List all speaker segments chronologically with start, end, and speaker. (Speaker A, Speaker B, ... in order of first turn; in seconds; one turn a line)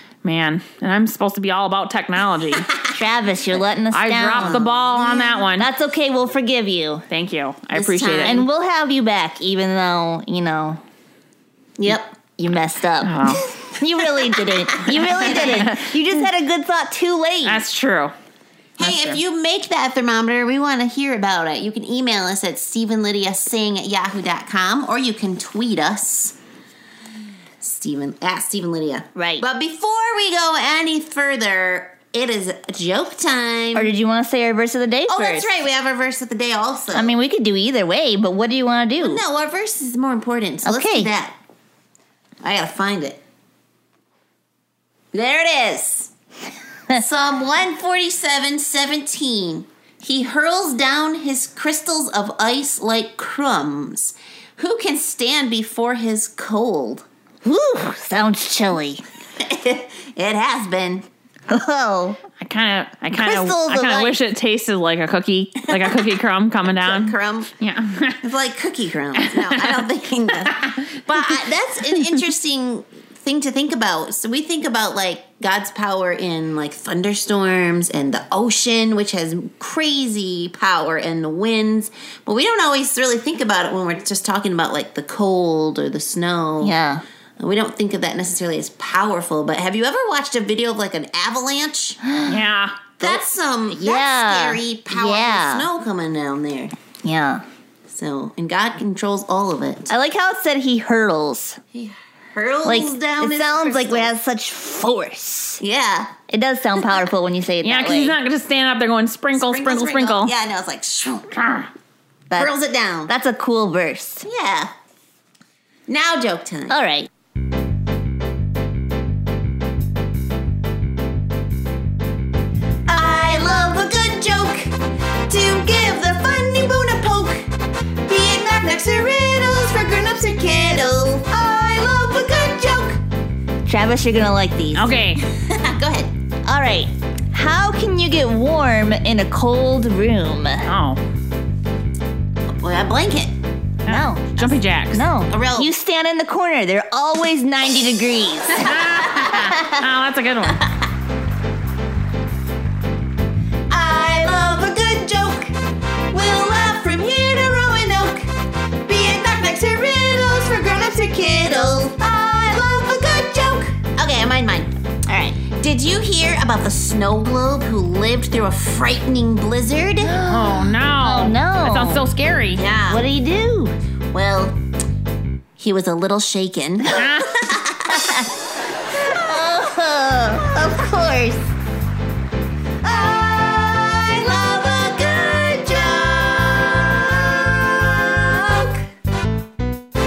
Speaker A: 0.2-2.6
Speaker B: 2.6-2.9
Speaker C: 2.9-4.7
Speaker A: 3.9-5.7
Speaker B: 4.4-5.5
Speaker C: 5.6-7.1
Speaker A: 7.1-8.3
Speaker B: 7.7-8.5
Speaker C: 8.2-10.8
Speaker B: 11.8-12.1
Speaker C: 11.9-17.7
Speaker A: 13.0-13.5
Speaker B: 14.1-15.7
Speaker A: 15.3-15.9
Speaker A: 17.4-18.1
Speaker B: 18.8-26.4
Speaker A: 18.8-19.2
Speaker B: 27.6-33.9
Speaker C: 29.2-29.4
Speaker C: 33.8-35.5
Speaker B: 35.1-37.1
Speaker C: 36.9-39.2
Speaker B: 39.0-41.4
Speaker C: 40.6-41.1
Speaker B: 42.4-43.2
Speaker B: 45.1-46.1
Speaker B: 46.9-57.1
Speaker C: 57.4-59.0
Speaker B: 59.4-61.1
Speaker C: 61.5-62.2
Speaker A: 62.4-68.3
Speaker C: 63.1-64.2
Speaker B: 65.7-67.5
Speaker B: 68.2-86.8
Speaker A: 69.2-69.8
Speaker C: 86.6-87.0
Speaker B: 87.4-92.0
Speaker C: 92.2-92.4
Speaker A: 92.3-92.9
Speaker C: 93.0-95.7
Speaker B: 93.0-96.7
Speaker C: 97.0-97.4
Speaker B: 97.9-99.9
Speaker C: 99.9-101.6
Speaker B: 101.7-104.1
Speaker C: 102.7-105.6
Speaker B: 105.6-106.2
Speaker C: 106.3-108.2
Speaker A: 107.6-110.3
Speaker B: 109.3-111.4
Speaker A: 111.3-111.7
Speaker B: 112.3-113.1
Speaker C: 113.1-114.2
Speaker B: 114.2-114.7
Speaker B: 115.9-116.8
Speaker C: 116.7-117.1
Speaker B: 122.9-124.8
Speaker B: 125.3-127.5
Speaker B: 128.1-133.0
Speaker C: 133.7-135.0
Speaker A: 134.7-135.2
Speaker B: 135.3-136.1
Speaker C: 136.4-140.7
Speaker A: 140.7-141.0
Speaker B: 142.5-143.3
Speaker A: 143.8-145.1
Speaker C: 143.9-148.8
Speaker B: 145.3-145.7
Speaker B: 148.5-149.8
Speaker A: 148.6-150.5
Speaker B: 153.7-155.6
Speaker B: 156.1-158.3
Speaker B: 158.9-164.7
Speaker C: 165.1-165.4
Speaker B: 165.4-170.2
Speaker C: 170.0-172.1
Speaker A: 170.3-172.6
Speaker B: 172.6-173.1
Speaker C: 172.9-173.8
Speaker B: 174.1-174.6
Speaker B: 175.6-178.3
Speaker A: 177.0-177.3
Speaker C: 178.0-178.3
Speaker C: 179.1-181.4
Speaker B: 182.8-188.8